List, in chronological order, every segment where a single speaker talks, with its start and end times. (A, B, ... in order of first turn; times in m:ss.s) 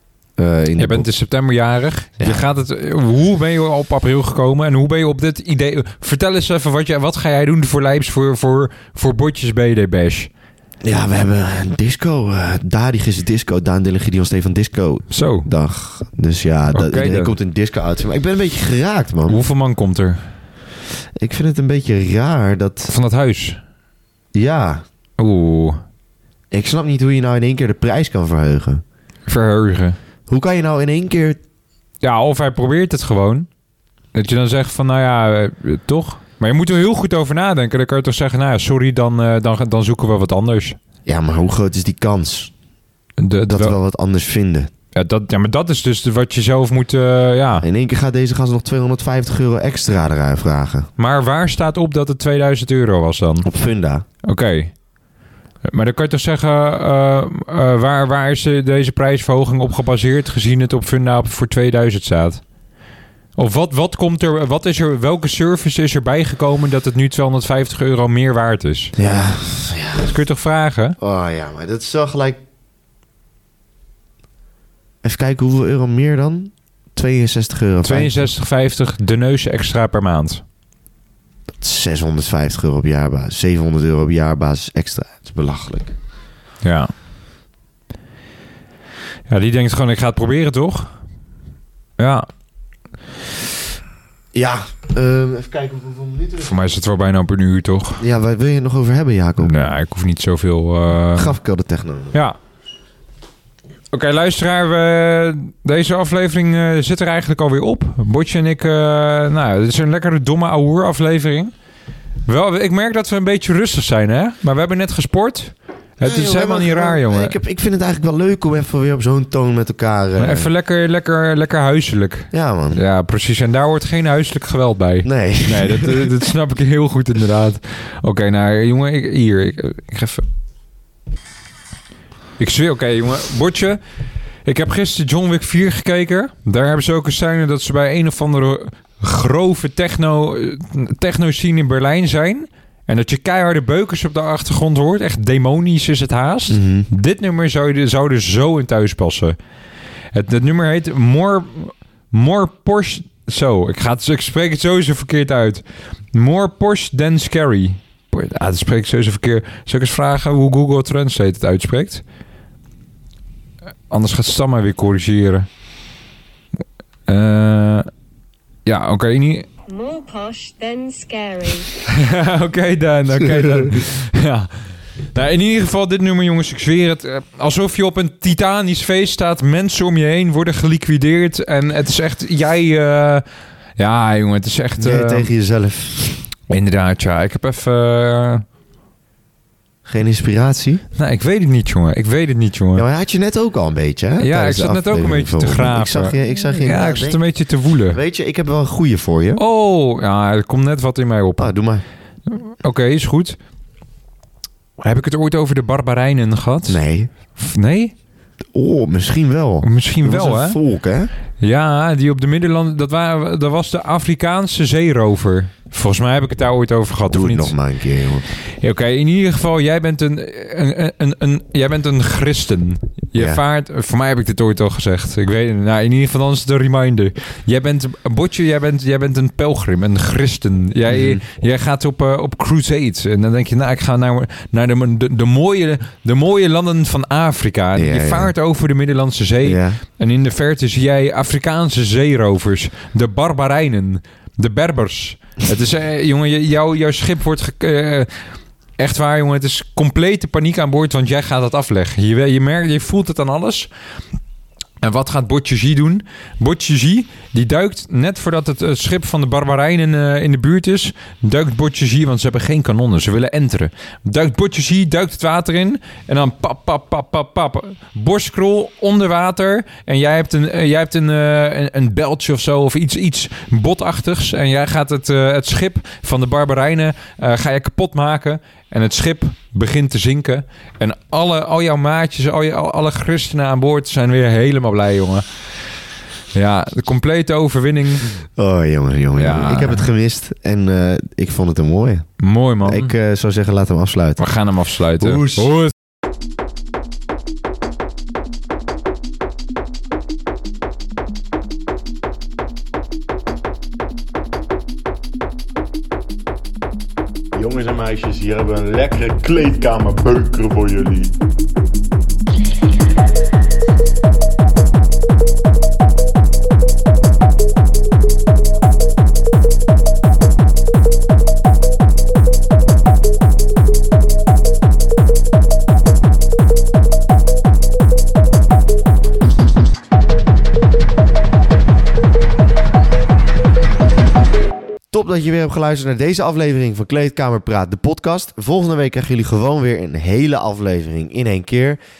0:00.4-0:01.1 A
0:00.8-0:10.3 B
0:10.8-0:19.4 A
0:15.1-0:15.5 B
0:16.7-0:17.4 B
0:19.3-0:20.2 B
0:21.2-0:22.9 A
0:22.9-0:23.6 B
0:24.3-0:24.8 A
0:25.2-0:25.8 B
0:26.5-0:28.8 A
0:29.3-0:30.0 B
0:30.3-0:31.4 A
0:32.0-0:33.5 B
0:34.1-0:40.8 B
0:41.1-0:42.5 A
0:43.2-0:43.8 B
0:43.5-0:44.7 A
0:44.9-0:47.7 B
0:47.6-0:50.9 A
0:51.0-0:53.5 B
0:53.4-0:54.0 A
0:54.2-0:54.7 B
0:55.6-1:02.4 B
1:03.4-1:09.0 B
1:09.0-1:10.1 A
1:10.0-1:11.0 B
1:11.0-1:12.4 A
1:15.0-1:18.2 A
1:17.8-1:20.4 B
1:21.6-1:25.9 A
1:26.6-1:26.9 B
1:29.3-1:30.9 B
1:32.0-1:32.3 B
1:34.3-1:36.5 A
1:36.4-1:38.0 B
1:38.0-1:39.5 A
1:39.4-1:41.3 B
1:41.2-1:42.2 A
1:43.9-1:51.5 B
1:52.3-1:57.4 B
1:56.0-2:00.5 A
2:00.2-2:10.3 B
2:02.3-2:02.8 A
2:05.0-2:06.1 A
2:12.4-2:13.8 B
2:14.4-2:29.4 B
2:26.5-2:26.9 A
2:30.1-2:42.0 B
2:43.9-2:45.5 B
2:47.1-2:47.9 B
2:48.6-2:49.5 B
2:49.7-2:51.8 C
2:51.9-2:54.5 B
2:55.1-3:03.2 B
3:03.8-3:05.3 B
3:04.8-3:06.2 A
3:06.5-3:08.4 B
3:09.9-3:10.8 A
3:11.0-3:12.8 B
3:12.8-3:17.2 A
3:14.2-3:18.0 B
3:17.9-3:19.4 A
3:19.4-3:21.5 B
3:21.4-3:21.8 A
3:22.3-3:23.4 B
3:24.8-3:26.8 B
3:26.7-3:27.1 A
3:27.3-3:27.9 B
3:28.5-3:31.1 A
3:29.6-3:30.6 B
3:31.4-3:37.6 B
3:37.1-3:38.3 A
3:38.6-4:08.1 B
3:50.9-3:51.2 A
3:57.8-3:58.3 A
3:59.4-3:59.8 A
4:08.8-4:13.7 B
4:14.8-4:45.3 B
4:46.3-4:48.1 B
4:48.4-4:52.1 A
4:49.2-4:49.8 B
4:52.2-4:52.9 B
4:52.6-4:54.2 A
4:54.2-4:55.7 B
4:55.0-4:55.5 A
5:07.3-5:11.2 D
5:34.9-5:41.8 A